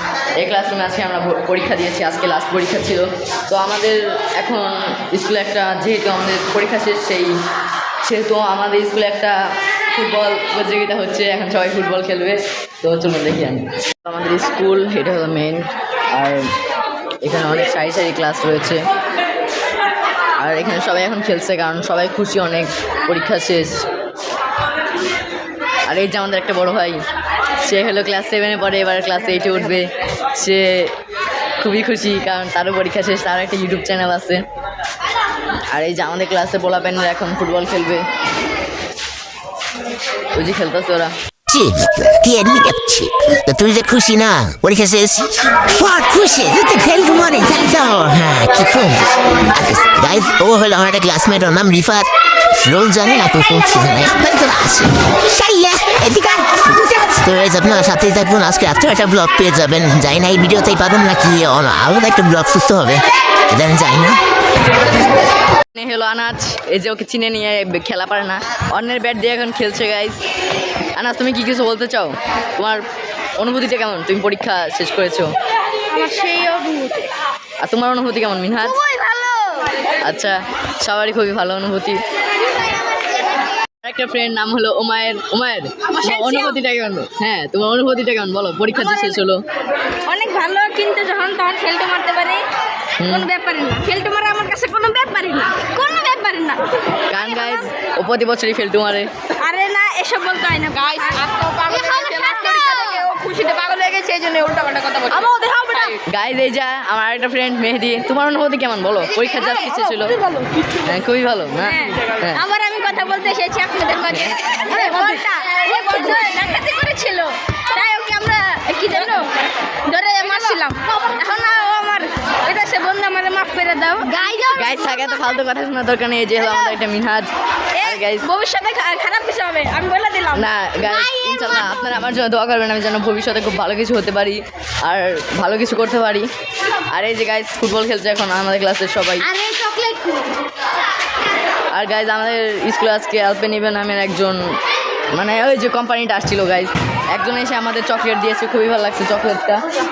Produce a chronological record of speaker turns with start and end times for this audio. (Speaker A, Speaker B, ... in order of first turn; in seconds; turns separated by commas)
Speaker A: 0.4-7.4, Speaker A: 8.1-9.4, Speaker A: 9.9-16.5, Speaker A: 17.2-18.9, Speaker A: 20.4-23.9, Speaker A: 25.9-27.0, Speaker A: 27.6-30.9, Speaker A: 31.6-34.4, Speaker A: 35.7-38.0, Speaker A: 40.3-41.1, Speaker B: 41.5-64.2, Speaker A: 65.7-70.2, Speaker A: 71.0-72.8, Speaker A: 73.4-75.3, Speaker C: 75.9-77.1, Speaker A: 77.6-78.8, Speaker C: 78.7-79.7, Speaker A: 80.0-82.0, Speaker A: 83.8-89.4, Speaker C: 86.0-86.6, Speaker C: 88.7-89.2, Speaker C: 90.0-92.4, Speaker A: 93.0-93.3, Speaker C: 93.0-97.7, Speaker A: 97.1-99.1, Speaker C: 99.4-106.0, Speaker A: 106.0-110.2, Speaker A: 110.8-112.4, Speaker C: 111.6-119.3, Speaker C: 119.9-125.0, Speaker A: 124.5-128.3, Speaker C: 127.8-131.6, Speaker A: 130.3-136.3, Speaker A: 136.9-139.3, Speaker C: 139.3-140.2, Speaker A: 141.7-144.4, Speaker A: 145.1-149.7